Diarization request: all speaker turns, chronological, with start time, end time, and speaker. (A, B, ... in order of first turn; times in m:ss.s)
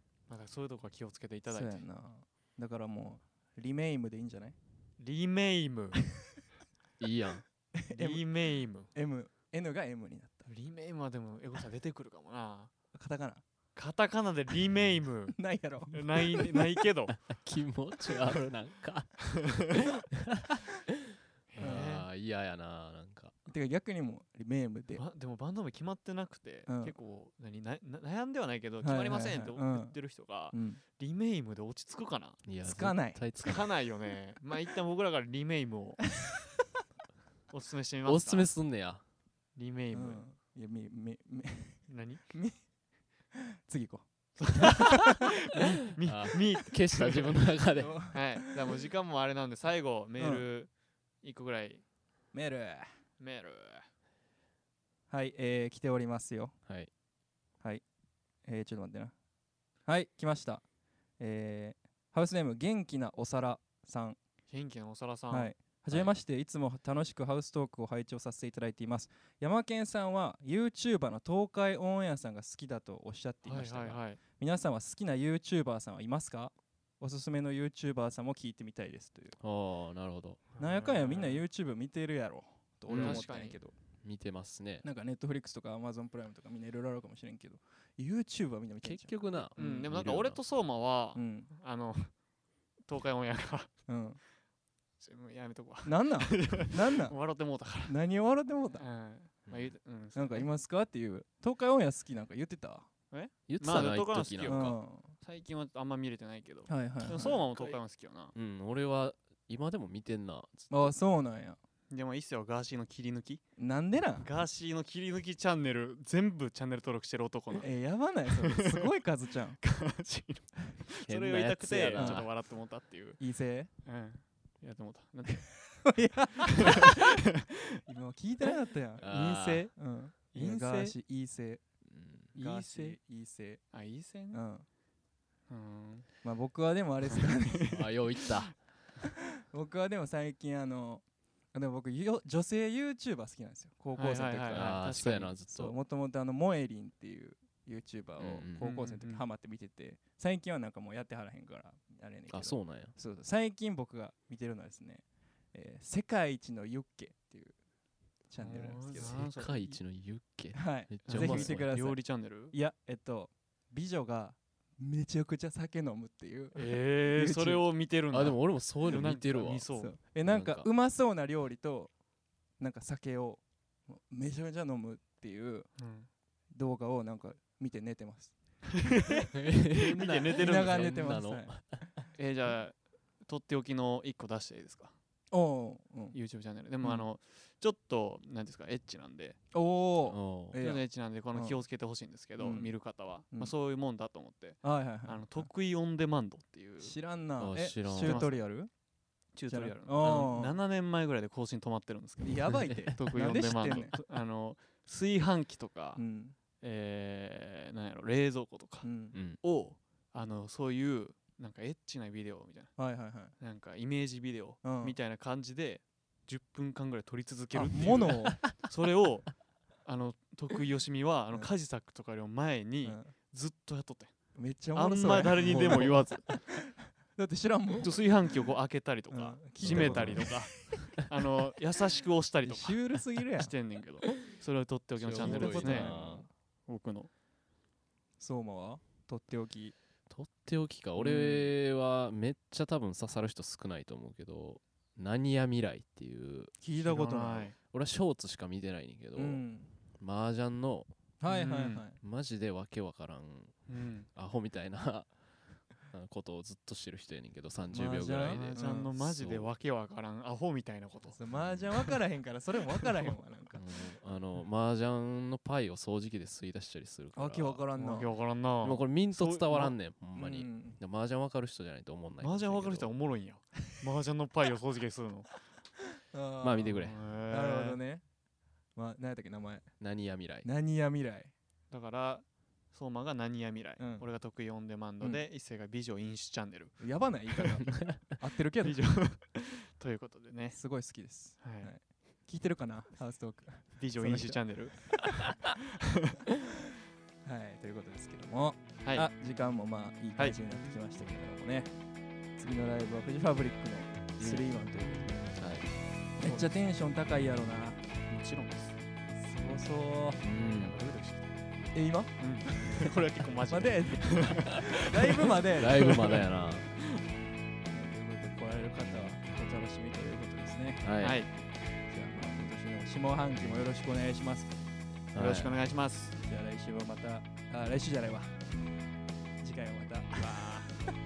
0:00.3-0:01.8 A
0:01.5-0:04.6 B
0:05.0-0:06.0 A
0:07.0-0:07.4 C
0:07.7-0:08.2 B
0:07.9-0:08.9 A
0:08.9-0:10.5 B
0:10.5-0:12.7 A
0:12.9-0:13.4 B
0:13.8-0:15.4 A
0:15.4-0:16.6 B
0:15.9-0:17.2 A
0:17.2-0:21.0 C
0:19.2-0:19.8 A
0:21.5-0:23.3 C
0:21.6-0:22.1 A
0:21.6-0:21.8 B
0:23.5-0:25.0 B
0:24.9-0:32.4 A
0:26.7-0:26.9 B
0:28.8-0:30.0 B
0:30.5-0:30.8 B
0:32.4-0:33.7 C
0:32.6-0:33.2 B
0:33.4-0:36.2 A
0:37.5-0:38.5 A
0:38.0-0:39.0 C
0:39.6-0:40.2 A
0:39.9-0:42.6 B
0:41.9-0:42.2 A
0:43.5-0:45.2 B
0:44.4-0:47.4 A
0:46.0-0:48.0 C
0:47.8-0:48.6 B
0:48.1-0:50.7 A
0:50.2-0:50.4 B
0:51.2-0:51.8 A
0:52.3-0:52.9 B
0:53.2-0:53.9 A
0:55.1-0:56.5 B
0:56.6-0:56.9 C
0:58.4-0:59.1 B
0:59.8-1:00.6 B
1:01.2-1:04.2 B
1:04.5-1:05.5 A
1:05.3-1:19.4 B
1:13.4-1:14.2 A
1:19.4-1:20.4 C
1:20.5-1:21.4 A
1:20.6-1:23.7 B
1:22.9-1:23.2 C
1:22.9-1:23.6 A
1:24.0-1:24.8 C
1:24.8-1:29.9 B
1:28.8-1:30.4 C
1:29.5-1:32.1 A
1:31.1-1:31.5 B
1:32.9-1:33.7 A
1:33.9-1:34.2 B
1:35.0-1:37.9 A
1:35.8-1:37.2 B
1:37.8-1:38.8 B
1:38.8-1:40.5 A
1:39.5-1:39.7 C
1:40.1-1:42.9 B
1:43.1-1:48.3 A
1:43.5-1:44.8 C
1:44.4-1:45.1 B
1:46.7-1:47.4 B
1:48.3-1:50.9 C
1:50.7-1:51.6 B
1:51.9-1:53.4 A
1:53.6-1:54.3 B
1:54.2-1:57.7 A
1:57.6-1:59.6 B
1:58.4-1:58.9 A
1:59.6-2:03.2 A
2:01.1-2:02.3 C
2:01.9-2:02.3 B
2:03.2-2:03.7 B
2:03.8-2:05.8 A
2:05.8-2:07.0 B
2:06.4-2:07.8 A
2:07.9-2:11.6 B
2:09.0-2:09.7 C
2:09.0-2:09.7 A
2:10.3-2:11.0 A
2:11.8-2:12.3 C
2:12.3-2:13.0 A
2:12.3-2:13.6 B
2:13.7-2:14.4 A
2:14.3-2:14.6 B
2:15.5-2:16.1 A
2:16.2-2:17.7 B
2:17.1-2:18.5 A
2:17.7-2:18.6 C
2:19.5-2:24.8 B
2:23.9-2:25.4 A
2:24.5-2:25.7 C
2:25.5-2:37.5 B
2:28.2-2:28.8 C
2:28.6-2:29.2 A
2:32.3-2:32.9 C
2:38.3-2:39.2 B
2:38.4-2:39.8 A
2:39.0-2:41.7 C
2:40.5-2:47.6 B
2:41.1-2:42.5 A
2:46.5-2:49.9 A
2:48.1-2:49.7 C
2:49.8-2:51.9 B
2:50.2-2:50.7 C
2:52.6-2:55.7 B
2:55.8-2:56.1 A
2:56.5-2:59.1 B
2:58.8-3:01.1 A
2:59.3-3:01.9 C
3:00.4-3:02.0 B
3:02.1-3:04.9 A
3:05.3-3:06.2 B
3:06.1-3:09.4 A
3:09.5-3:11.6 B
3:10.0-3:10.6 C
3:10.6-3:17.0 A
3:12.4-3:12.7 B
3:14.6-3:15.5 B
3:16.8-3:18.7 B
3:17.4-3:18.2 C
3:18.0-3:18.4 A
3:19.3-3:26.0 A
3:19.5-3:20.5 B
3:22.2-3:24.0 B
3:26.0-3:26.3 B
3:26.6-3:32.8 A
3:28.8-3:29.1 B
3:32.8-3:33.3 B
3:33.4-3:39.3 A
3:34.6-3:35.0 B
3:37.5-3:38.4 B
3:39.8-3:44.1 A
3:42.8-3:43.1 B
3:44.3-3:48.4 B
3:44.7-3:46.2 A
3:45.2-3:46.4 C
3:47.8-3:55.9 A
3:49.1-3:51.0 B
3:49.6-3:50.3 C
3:52.4-3:53.5 B
3:55.0-3:56.2 C
3:55.1-3:56.3 B
3:56.7-3:57.1 A
3:58.2-3:59.7 B
4:00.1-4:06.5 C
4:01.0-4:01.5 B
4:06.6-4:07.5 B
4:06.8-4:07.6 A
4:07.7-4:09.4 C
4:09.2-4:09.7 B
4:10.0-4:10.9 C
4:11.2-4:12.0 B
4:11.3-4:11.8 A
4:12.0-4:15.1 C
4:13.7-4:14.1 A
4:15.8-4:19.5 C
4:17.7-4:18.9 B
4:18.2-4:21.2 A
4:21.1-4:23.6 B
4:21.3-4:21.7 C
4:23.6-4:27.6 C
4:27.1-4:28.1 B
4:27.8-4:29.7 A
4:28.6-4:32.9 C
4:30.1-4:30.8 B
4:32.2-4:35.3 A
4:36.1-4:38.0 B
4:36.4-4:37.0 C
4:36.8-4:37.8 A
4:38.8-4:39.7 B
4:39.8-4:40.5 C
4:40.4-4:41.3 B
4:41.7-4:47.4 A
4:43.8-4:44.0 B
4:46.8-4:48.8 B
4:48.6-4:50.6 A
4:50.5-4:55.2 B
4:51.4-4:51.7 A
4:53.8-4:55.2 A
4:57.2-5:01.7 B
4:58.8-4:59.1 A
5:02.4-5:05.4 B
5:04.2-5:04.5 C
5:05.4-5:05.7 C
5:06.2-5:07.8 B
5:06.2-5:06.6 A
5:08.1-5:08.8 A
5:09.2-5:10.2 B
5:10.2-5:10.8 C
5:10.5-5:11.3 A
5:11.7-5:12.9 B
5:12.2-5:15.3 A
5:13.5-5:16.1 B
5:15.4-5:16.7 C
5:17.7-5:20.8 B
5:20.8-5:21.2 C
5:21.0-5:21.3 A
5:21.9-5:24.5 B
5:23.4-5:23.6 C
5:25.1-5:25.6 C
5:25.1-5:26.2 A
5:26.2-5:28.3 B
5:29.4-5:30.6 B
5:30.1-5:30.7 A